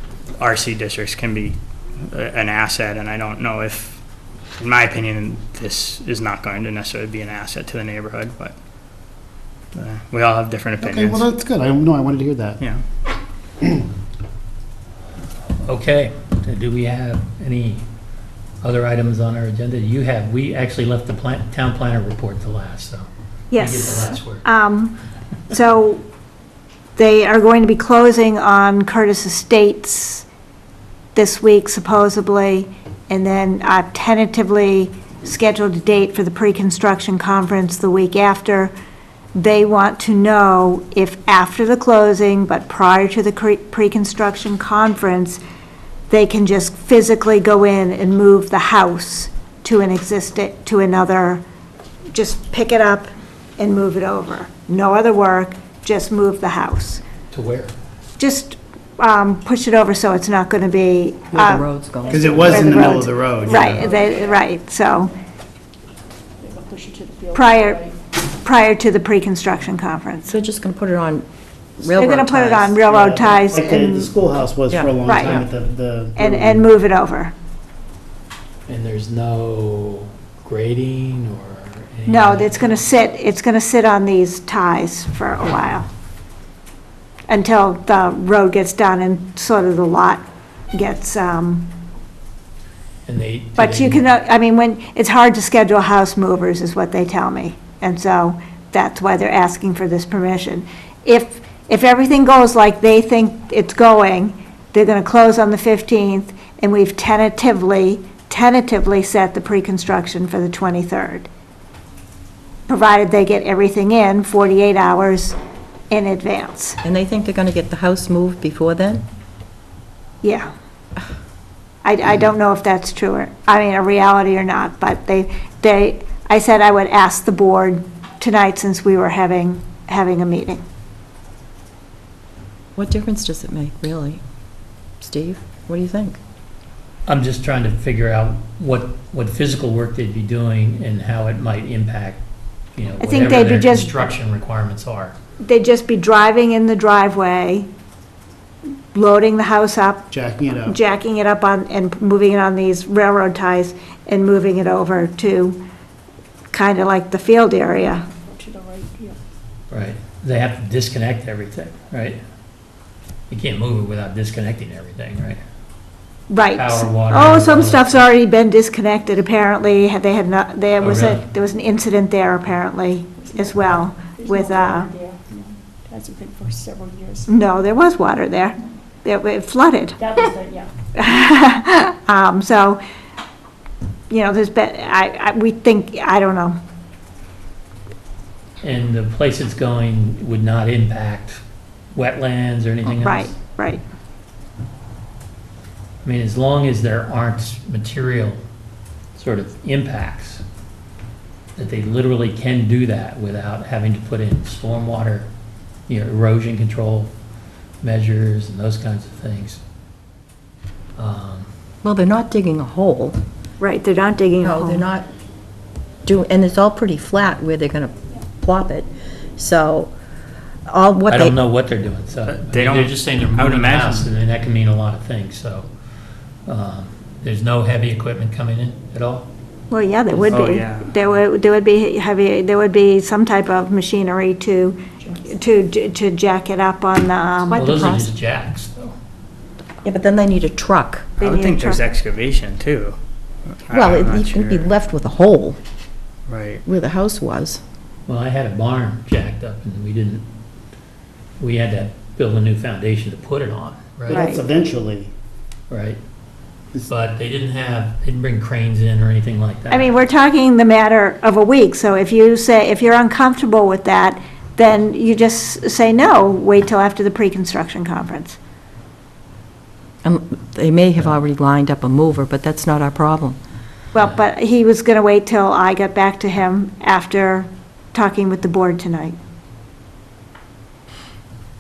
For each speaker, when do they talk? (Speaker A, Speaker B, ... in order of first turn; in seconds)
Speaker A: 0.4-1.6, 2.1-4.0, 4.6-8.6, 9.8-11.3, 222.3-224.1, 230.3-230.9, 241.2-243.0, 243.7-244.7, 246.3-246.6
Speaker B: 10.8-12.6, 62.1-64.0, 72.9-76.7, 150.1-150.8, 254.1-255.1
Speaker C: 15.7-17.8, 18.6-24.5, 57.3-57.7, 78.7-82.8, 93.1-94.1, 137.1-142.2, 142.8-145.2, 159.7-162.2, 163.3-165.4, 166.5-168.0, 170.8-171.2, 188.6-191.4, 191.9-193.3, 196.0-198.4, 199.2-200.4, 201.6-205.3, 205.9-207.1, 207.8-209.6, 211.0-211.5, 221.1-225.7, 226.5-229.3, 237.5-238.9, 248.1-250.2, 251.4-254.3, 255.7-256.0, 256.9-260.0
Speaker D: 23.5-25.0, 25.5-26.0, 27.0-30.2, 31.1-38.7, 39.4-45.4, 46.1-51.4, 52.1-57.0, 58.2-61.7, 62.4-65.1, 67.3-67.8, 68.4-70.3, 71.9-74.1, 75.0-75.4, 76.2-77.3, 82.1-85.9, 87.3-91.7, 93.6-111.3, 112.7-115.4, 115.9-116.8, 120.2-120.5, 121.8-130.6, 143.0-144.0, 145.4-147.7, 148.9-150.1, 150.6-155.6, 156.5-158.0, 166.3-174.9, 177.3-180.1, 181.0-182.8, 184.1-186.6, 193.0-193.8, 213.6-214.8, 229.7-237.7, 241.2-241.8, 254.1-254.4, 259.7-268.4, 273.9-279.2
Speaker E: 61.3-62.6, 70.3-71.3, 71.8-72.8, 74.7-75.4, 116.8-119.0, 132.8-134.2, 135.0-136.2, 211.8-213.2, 214.4-215.1, 216.1-219.9, 220.7-221.4, 237.5-238.1, 239.8-241.1, 243.7-245.6, 246.7-247.6, 270.0-273.4
Speaker F: 63.5-64.5, 66.4-67.9, 158.3-159.2, 173.2-177.3, 180.0-180.7